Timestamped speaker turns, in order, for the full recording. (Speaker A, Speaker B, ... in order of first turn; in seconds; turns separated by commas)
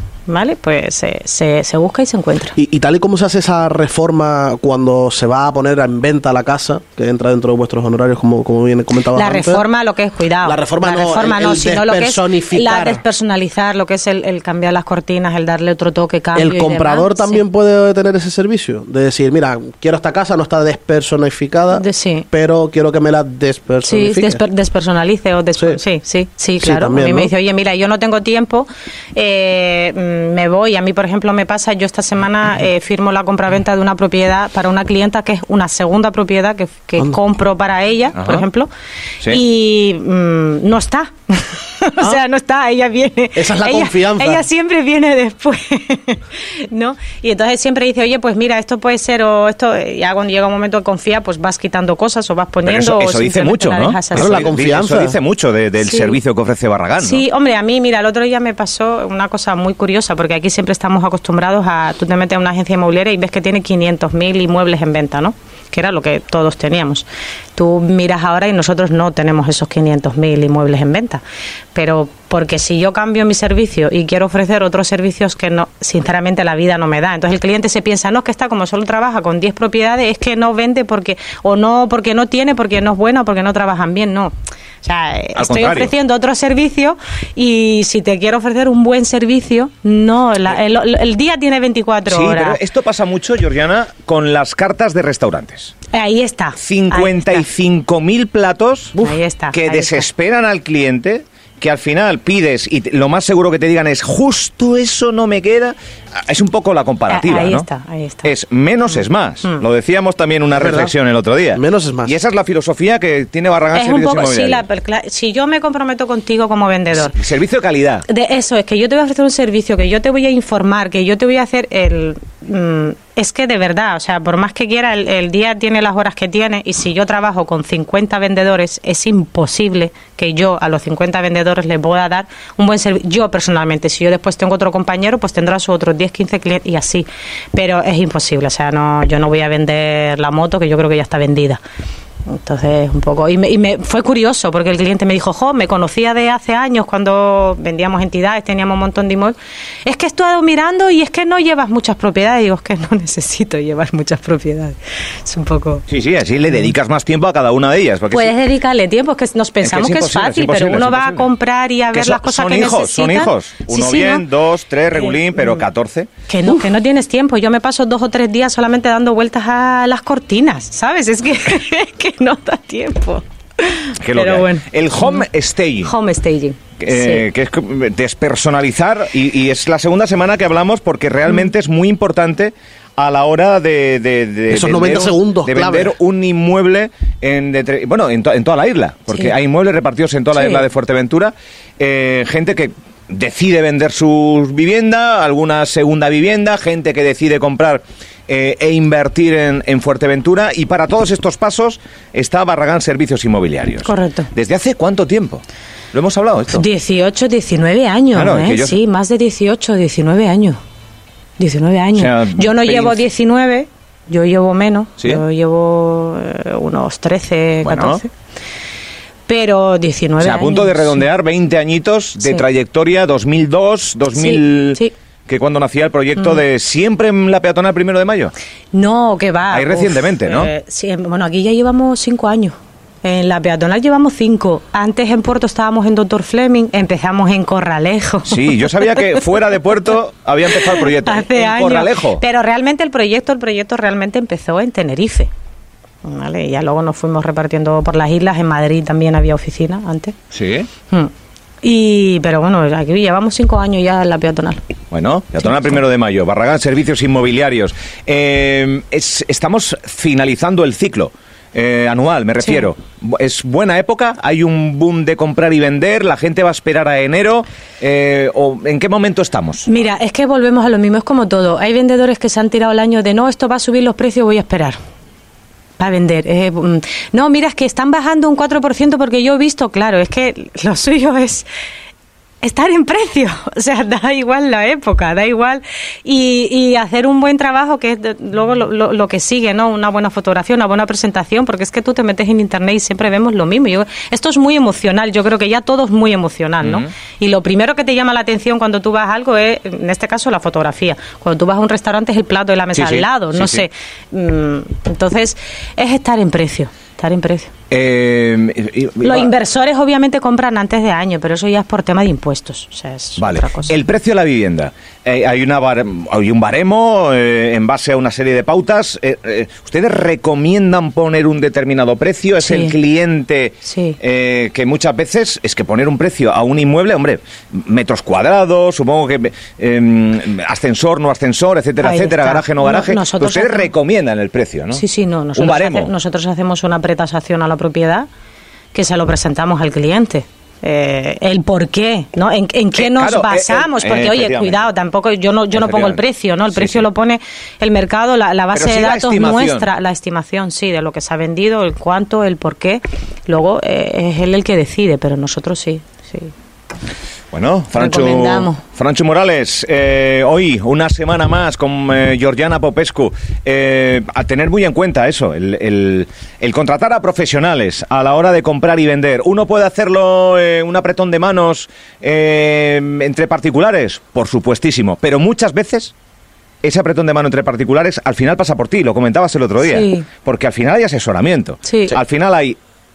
Speaker A: 0.3-2.6, Speaker B: 2.5-9.6, Speaker A: 9.1-17.4, Speaker B: 10.4-13.0, Speaker B: 16.3-24.4, Speaker A: 21.7-22.3, Speaker A: 23.8-38.7, Speaker B: 26.6-27.3, Speaker C: 38.1-38.4, Speaker A: 39.2-54.4, Speaker B: 43.3-44.4, Speaker C: 52.6-57.2, Speaker B: 54.1-55.1, Speaker A: 55.8-56.2, Speaker A: 57.0-71.2, Speaker A: 71.7-92.6, Speaker C: 85.3-85.9, Speaker C: 92.1-95.7, Speaker A: 95.9-97.5, Speaker C: 96.6-107.7, Speaker A: 99.0-100.1, Speaker A: 107.1-108.3, Speaker C: 108.2-114.6, Speaker B: 110.5-110.9, Speaker B: 111.5-112.2, Speaker A: 113.7-117.1, Speaker C: 116.9-118.0, Speaker A: 118.1-141.6, Speaker A: 142.3-155.8, Speaker C: 155.9-158.4, Speaker A: 158.1-164.2, Speaker C: 159.6-161.3, Speaker C: 161.9-166.1, Speaker A: 165.0-165.6, Speaker A: 166.3-175.2, Speaker C: 174.0-175.9, Speaker A: 175.8-177.2, Speaker C: 176.8-206.7, Speaker B: 184.5-185.9, Speaker A: 203.8-204.3, Speaker A: 206.5-210.6, Speaker C: 208.1-208.8, Speaker A: 211.4-218.1, Speaker C: 211.9-213.1, Speaker C: 217.6-218.0, Speaker A: 219.3-221.0, Speaker C: 220.2-228.3, Speaker A: 224.1-224.9, Speaker A: 228.7-238.7, Speaker C: 229.5-230.5, Speaker C: 238.2-242.2, Speaker A: 240.5-245.3, Speaker A: 246.0-250.1, Speaker C: 250.3-250.7, Speaker A: 251.6-254.6, Speaker C: 254.9-269.7, Speaker A: 269.6-274.8, Speaker A: 275.8-281.5, Speaker A: 282.4-307.5, Speaker C: 296.6-296.9, Speaker C: 302.7-303.6, Speaker C: 307.7-309.3, Speaker A: 309.0-313.8, Speaker C: 313.2-334.8, Speaker A: 322.4-322.8, Speaker A: 323.6-324.0, Speaker A: 331.8-333.7, Speaker A: 334.7-338.1, Speaker C: 335.3-335.9, Speaker A: 338.7-356.3, Speaker C: 342.8-344.7, Speaker C: 345.5-346.8, Speaker C: 348.5-349.7, Speaker C: 357.3-375.9, Speaker A: 357.7-358.6, Speaker C: 376.6-382.6, Speaker A: 379.6-380.1, Speaker A: 381.6-382.0